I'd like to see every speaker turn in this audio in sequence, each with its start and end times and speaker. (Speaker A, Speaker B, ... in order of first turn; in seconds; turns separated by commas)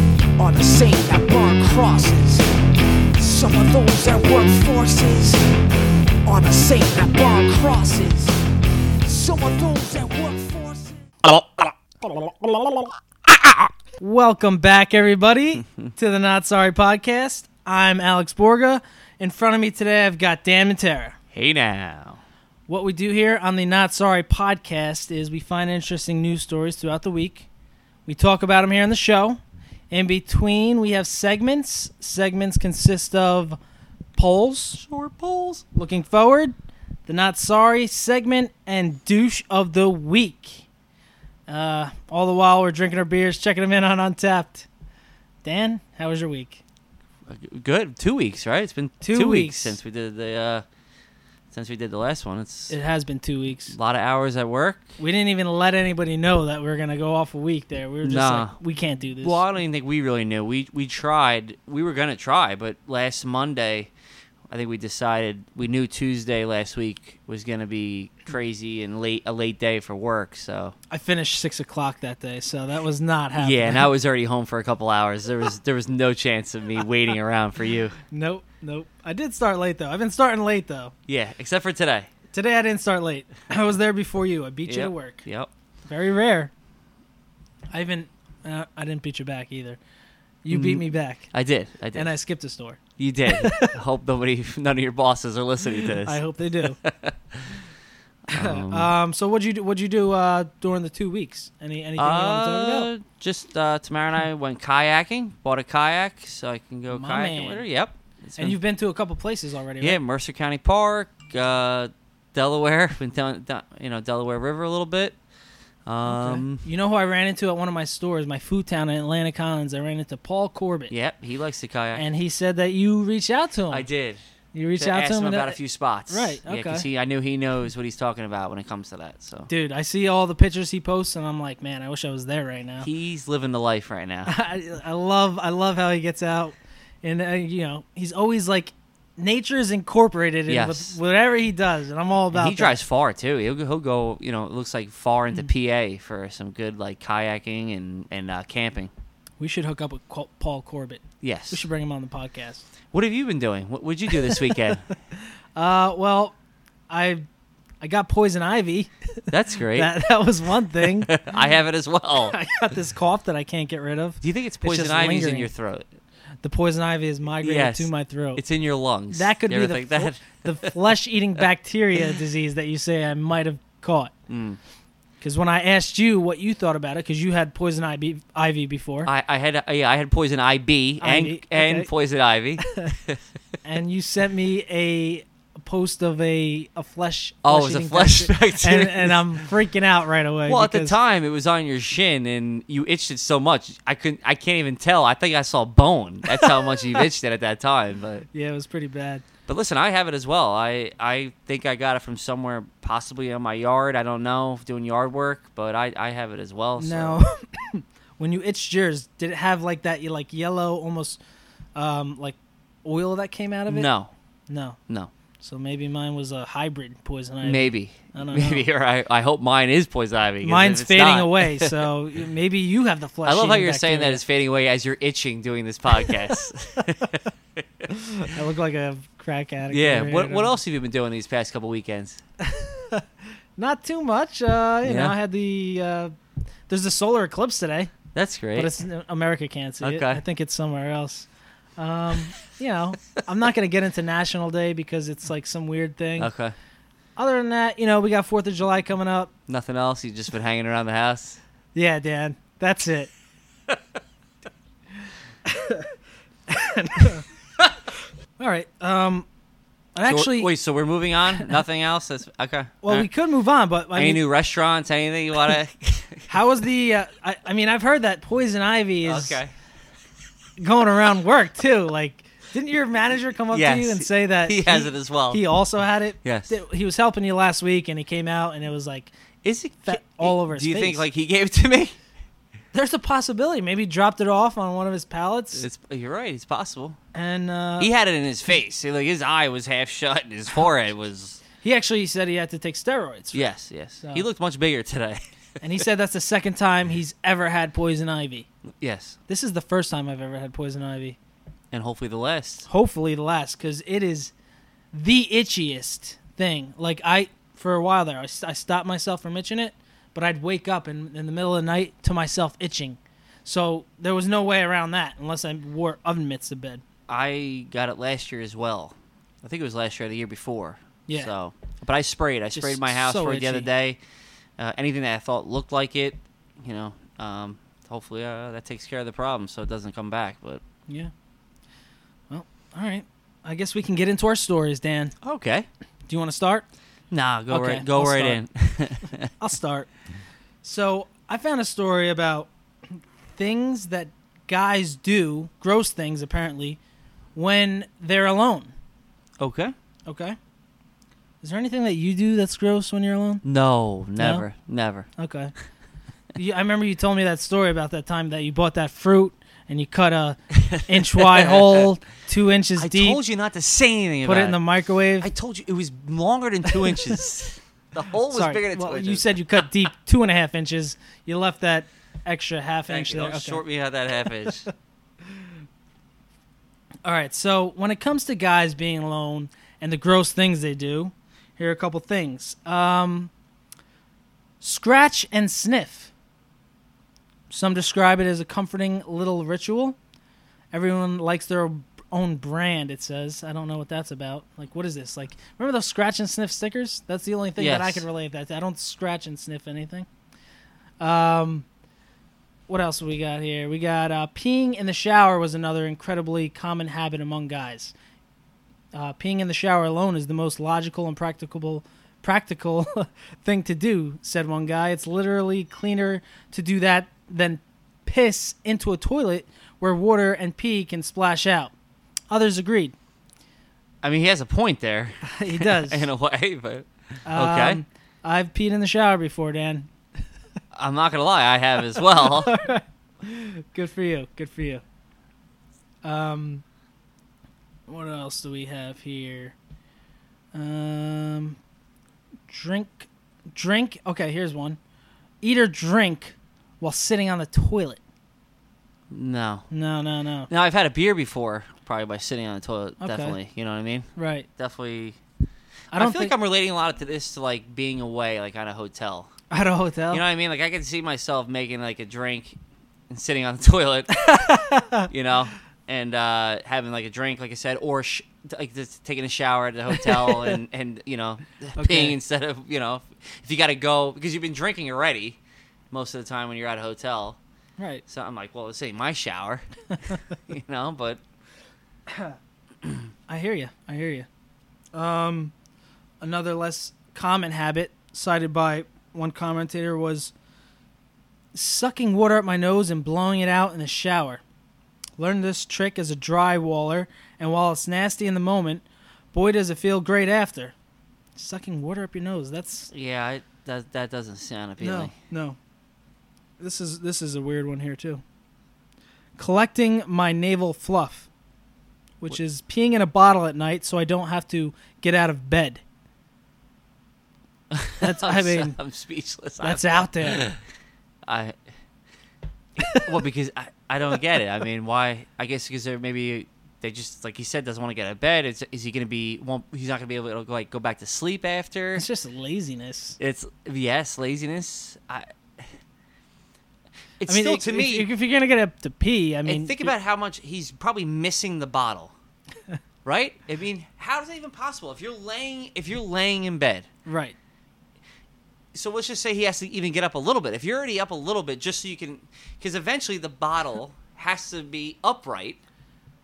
Speaker A: 0.4-2.5, Speaker A: 3.1-5.5, Speaker A: 6.2-8.4, Speaker A: 9.1-11.1, Speaker B: 14.0-21.2, Speaker C: 21.3-22.2, Speaker B: 22.7-27.5, Speaker B: 28.1-29.4, Speaker B: 29.9-33.6, Speaker B: 34.2-34.8, Speaker C: 34.8-35.6, Speaker B: 35.7-36.5, Speaker B: 37.1-40.7, Speaker B: 41.5-44.7, Speaker B: 45.4-46.6, Speaker C: 47.3-50.6, Speaker B: 49.0-49.8, Speaker C: 51.5-52.8, Speaker B: 52.7-53.8, Speaker C: 53.7-55.0, Speaker B: 55.0-59.4, Speaker C: 58.0-58.6, Speaker C: 59.2-63.9, Speaker C: 64.5-70.8, Speaker B: 70.9-73.9, Speaker C: 73.4-78.0, Speaker B: 78.1-80.9, Speaker C: 81.1-82.1, Speaker B: 82.3-85.3, Speaker C: 84.7-85.5, Speaker B: 85.8-86.5, Speaker B: 87.7-89.8, Speaker B: 90.4-91.3, Speaker C: 90.5-92.1, Speaker B: 91.9-93.7, Speaker C: 93.0-97.6, Speaker B: 95.9-96.8, Speaker B: 98.3-102.9, Speaker C: 98.3-98.9, Speaker C: 102.0-108.6, Speaker B: 106.9-107.7, Speaker B: 108.4-110.0, Speaker C: 109.8-115.2, Speaker C: 115.9-116.7, Speaker B: 116.0-120.9, Speaker C: 120.9-122.0, Speaker B: 122.0-123.9, Speaker C: 123.7-124.2, Speaker B: 124.5-125.6, Speaker C: 124.8-129.5, Speaker B: 126.1-126.9, Speaker B: 129.5-132.9, Speaker C: 132.8-134.3, Speaker B: 134.2-142.8, Speaker C: 140.5-141.0, Speaker C: 142.3-148.9, Speaker B: 149.4-152.7, Speaker C: 151.2-151.6, Speaker C: 152.9-154.8, Speaker B: 155.6-156.3, Speaker B: 156.9-157.2, Speaker B: 157.8-158.9, Speaker C: 159.3-159.9, Speaker B: 159.7-161.2, Speaker C: 160.8-162.4, Speaker B: 162.2-165.5, Speaker C: 164.2-165.9, Speaker B: 166.4-168.4, Speaker C: 167.4-170.7, Speaker B: 169.1-174.1, Speaker C: 174.3-174.6, Speaker B: 175.2-179.1, Speaker C: 179.0-183.2, Speaker B: 181.0-181.9, Speaker B: 183.6-191.0, Speaker C: 187.4-189.2, Speaker C: 190.5-198.2, Speaker B: 198.3-199.2, Speaker C: 199.5-207.2, Speaker B: 206.8-211.2, Speaker B: 211.7-213.9, Speaker C: 213.7-214.1, Speaker B: 214.5-214.8, Speaker B: 215.4-218.7, Speaker C: 217.4-221.8, Speaker B: 220.4-224.2, Speaker C: 223.2-227.2, Speaker B: 227.9-230.6, Speaker C: 229.7-232.2, Speaker B: 232.4-233.0, Speaker B: 233.6-236.1, Speaker C: 234.8-235.1, Speaker B: 236.7-237.9, Speaker C: 238.1-238.7, Speaker B: 238.5-246.3, Speaker C: 239.8-240.2, Speaker C: 246.2-246.5, Speaker B: 247.2-249.3, Speaker C: 249.5-251.4, Speaker B: 251.7-253.1, Speaker B: 255.5-255.9, Speaker B: 256.5-257.2, Speaker B: 258.4-259.2, Speaker B: 259.9-260.5, Speaker C: 260.1-263.1, Speaker B: 261.3-261.6, Speaker B: 262.8-264.2, Speaker C: 263.9-266.3, Speaker B: 266.3-269.4, Speaker C: 269.0-269.5, Speaker B: 270.6-279.1, Speaker C: 273.5-275.4, Speaker C: 276.2-276.6, Speaker C: 279.4-282.0, Speaker B: 279.8-281.1, Speaker B: 282.7-285.7, Speaker C: 285.5-287.0, Speaker B: 287.1-287.9, Speaker C: 287.8-291.4, Speaker B: 291.6-293.4, Speaker C: 293.3-295.2, Speaker B: 294.0-294.2, Speaker B: 295.6-298.5, Speaker C: 298.8-299.2, Speaker B: 299.3-301.2, Speaker C: 301.7-302.7, Speaker B: 302.7-304.3, Speaker B: 304.9-316.8, Speaker C: 317.1-324.0, Speaker B: 321.1-321.3, Speaker B: 322.6-323.7, Speaker C: 324.6-330.6, Speaker B: 332.3-335.1, Speaker C: 335.2-335.7, Speaker B: 336.1-336.7, Speaker C: 337.1-339.3, Speaker B: 337.5-338.4, Speaker B: 339.4-339.9, Speaker B: 340.6-346.8, Speaker B: 347.4-348.7, Speaker C: 349.4-349.7, Speaker B: 350.1-350.4, Speaker B: 351.4-353.4, Speaker C: 353.4-355.1, Speaker B: 354.2-354.5, Speaker B: 355.2-355.5, Speaker B: 356.4-363.2, Speaker C: 360.7-361.8, Speaker C: 362.8-364.6, Speaker B: 364.2-365.3, Speaker C: 365.2-369.3, Speaker B: 368.3-373.6, Speaker C: 372.9-374.7, Speaker B: 377.1-383.3, Speaker B: 384.6-386.1, Speaker B: 387.5-390.0, Speaker B: 390.7-400.1, Speaker C: 397.6-398.1, Speaker B: 401.0-401.7, Speaker B: 402.7-407.9, Speaker B: 408.9-421.7, Speaker B: 422.3-422.9, Speaker C: 424.0-427.8, Speaker B: 425.2-426.1, Speaker B: 427.2-429.9, Speaker C: 430.7-432.6, Speaker B: 432.2-434.8, Speaker B: 436.0-436.6, Speaker B: 437.9-439.6, Speaker B: 440.5-441.6, Speaker B: 442.5-444.8, Speaker B: 445.4-448.0, Speaker C: 449.1-449.7, Speaker B: 449.7-450.5, Speaker C: 450.5-455.2, Speaker B: 453.0-453.4, Speaker B: 454.2-454.5, Speaker B: 455.9-456.3, Speaker C: 455.9-459.3, Speaker B: 459.5-460.2, Speaker C: 460.1-462.6, Speaker C: 463.1-464.3, Speaker B: 464.2-465.1, Speaker C: 465.1-475.4, Speaker B: 470.0-470.6, Speaker B: 471.8-472.2, Speaker C: 475.9-477.4, Speaker B: 477.8-478.0, Speaker C: 478.1-479.7, Speaker C: 480.5-481.2, Speaker B: 483.3-484.3, Speaker B: 484.9-485.5, Speaker B: 486.2-490.3, Speaker B: 491.5-494.4, Speaker B: 495.2-500.7, Speaker B: 501.4-502.9, Speaker C: 502.9-505.1, Speaker B: 504.8-505.6, Speaker B: 506.6-508.2, Speaker B: 509.4-511.3, Speaker B: 512.2-515.8, Speaker C: 517.7-520.6, Speaker B: 518.0-518.8, Speaker B: 519.6-520.5, Speaker C: 521.2-521.6, Speaker C: 522.9-532.1, Speaker B: 532.0-533.2, Speaker C: 533.2-535.6, Speaker C: 537.2-538.1, Speaker B: 537.3-539.9, Speaker C: 539.5-542.1, Speaker C: 543.0-546.9, Speaker B: 547.1-547.4, Speaker C: 548.7-555.6